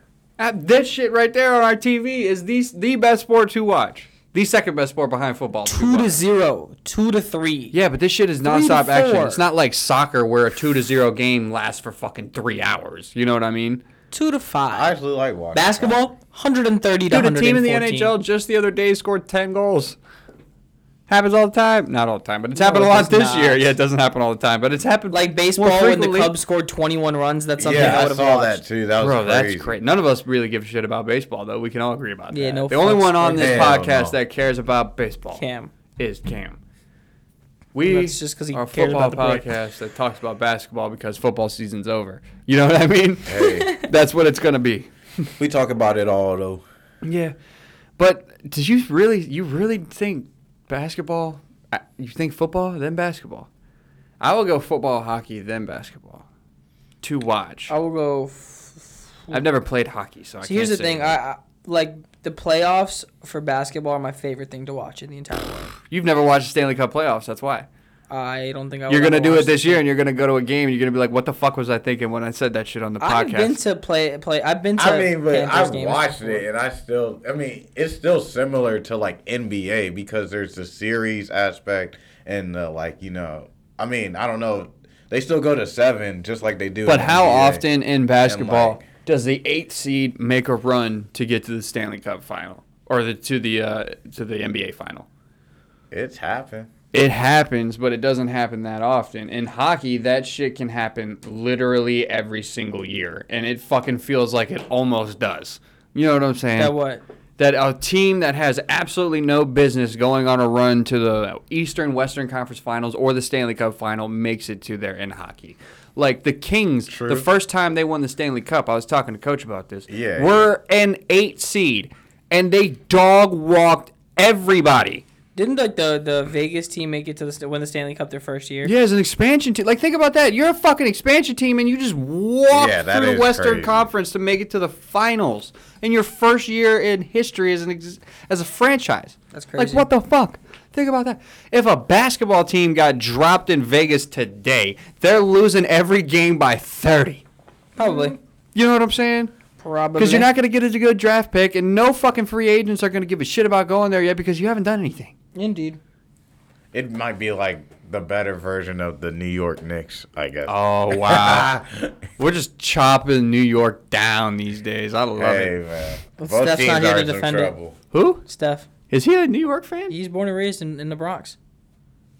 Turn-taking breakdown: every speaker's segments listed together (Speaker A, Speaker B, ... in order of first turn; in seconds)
Speaker A: 0.4-6.2, 7.7-13.8, 17.1-20.0, 21.1-26.3, 29.0-35.4, 36.0-36.6, 37.7-45.3, 47.0-47.3, 48.0-53.5, 54.2-56.2, 57.0-57.7, 59.3-61.2, 65.9-67.7, 68.9-73.6, 86.8-95.1, 96.9-106.7, 107.4-125.0, 128.6-147.2, 147.8-149.3, 150.0-155.1, 160.5-161.5, 162.2-165.5, 167.9-168.2, 168.9-169.9
Speaker B: 5.7-7.7, 8.4-9.4, 14.1-14.9, 15.5-18.1, 22.6-23.6, 25.1-28.6, 32.3-33.6, 35.4-35.7, 37.8-39.5, 43.5-43.9, 57.7-59.4, 60.4-65.7, 68.1-69.8, 73.0-76.4, 106.5-107.0, 125.3-128.7, 139.3-139.9, 147.8-148.2, 149.6-150.3, 155.3-155.8, 166.2-167.5, 168.2-168.7, 169.9-171.3
Speaker C: 14.7-16.0, 27.6-29.8, 33.2-34.1, 43.2-43.7, 45.4-46.6, 74.8-87.7, 88.2-88.9, 95.9-96.7, 116.9-117.2, 119.9-120.5, 132.5-133.9, 156.7-162.0, 165.2-167.8